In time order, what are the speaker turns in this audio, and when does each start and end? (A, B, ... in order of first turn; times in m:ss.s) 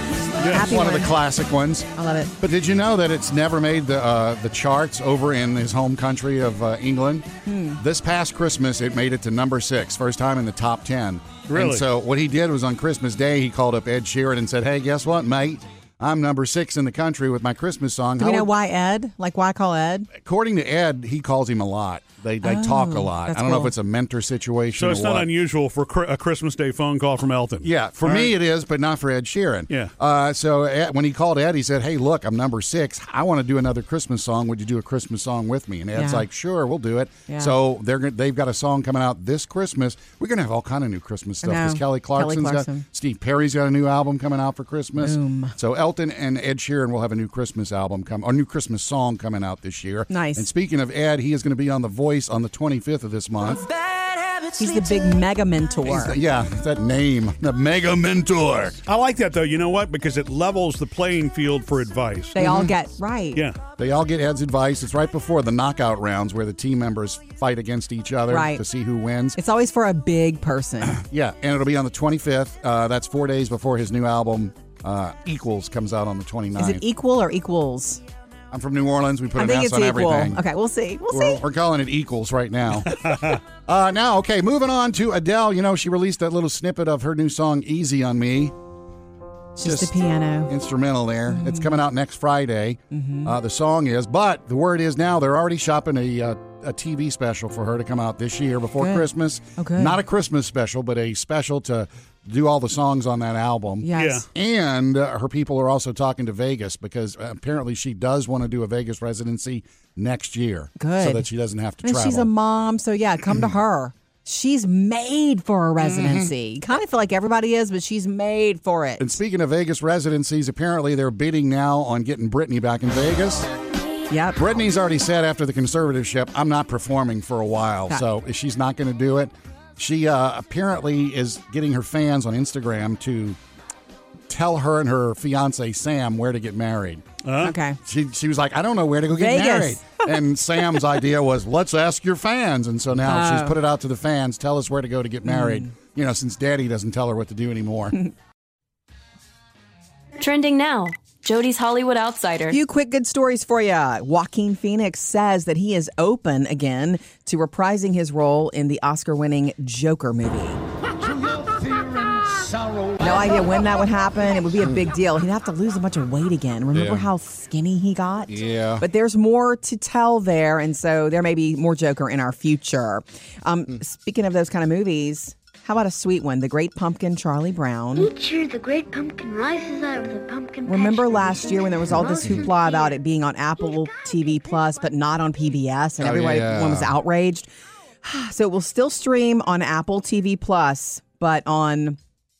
0:00.4-0:00.6 A
0:00.4-0:01.1 B
0:00.4-0:07.3 C
0:01.9-0:02.3 B
0:07.4-0:07.8 B
0:07.8-0:18.5 C
0:11.5-0:11.8 A
0:18.2-0:20.1 B
0:20.1-0:25.3 C
0:22.4-0:23.7 B
0:24.8-0:28.3 A
0:27.6-0:53.6 C
0:35.9-0:36.2 B
0:37.3-0:37.5 B
0:41.4-0:42.8 B
0:45.0-0:45.6 B
0:50.1-0:50.5 B
0:54.3-0:56.2 B
0:55.8-0:58.8 C
0:58.8-1:02.4 A
1:02.3-1:03.4 B
1:02.4-1:02.7 C
1:03.3-1:03.6 A
1:03.8-1:09.4 C
1:08.3-1:08.6 B
1:09.4-1:11.0 B
1:10.8-1:16.8 C
1:16.6-1:18.0 B
1:18.5-1:20.4 C
1:19.4-1:21.4 B
1:21.1-1:28.5 C
1:23.0-1:23.4 A
1:29.5-1:30.5 B
1:29.6-1:52.3 C
1:31.3-1:31.8 B
1:32.9-1:33.4 B
1:38.8-1:39.0 B
1:39.6-1:40.0 B
1:43.8-1:44.2 B
1:44.0-1:44.2 A
1:50.8-1:51.3 B
1:51.8-1:59.2 B
1:55.8-1:56.3 C
1:59.0-2:03.5 C
2:04.1-2:04.4 B
2:04.4-2:13.4 C
2:14.3-2:17.0 C
2:17.2-2:17.5 A
2:17.4-2:17.8 B
2:17.8-2:28.0 C
2:19.2-2:20.1 B
2:23.0-2:23.6 B
2:25.2-2:25.7 B
2:30.2-2:32.6 D
2:32.5-2:40.6 B
2:43.0-2:58.1 B
2:46.7-2:47.1 C
2:48.3-2:48.8 C
2:57.9-3:03.0 E
3:00.6-3:07.5 B
3:02.2-3:02.4 C
3:03.6-3:04.8 E
3:06.0-3:06.9 C
3:08.0-3:12.0 B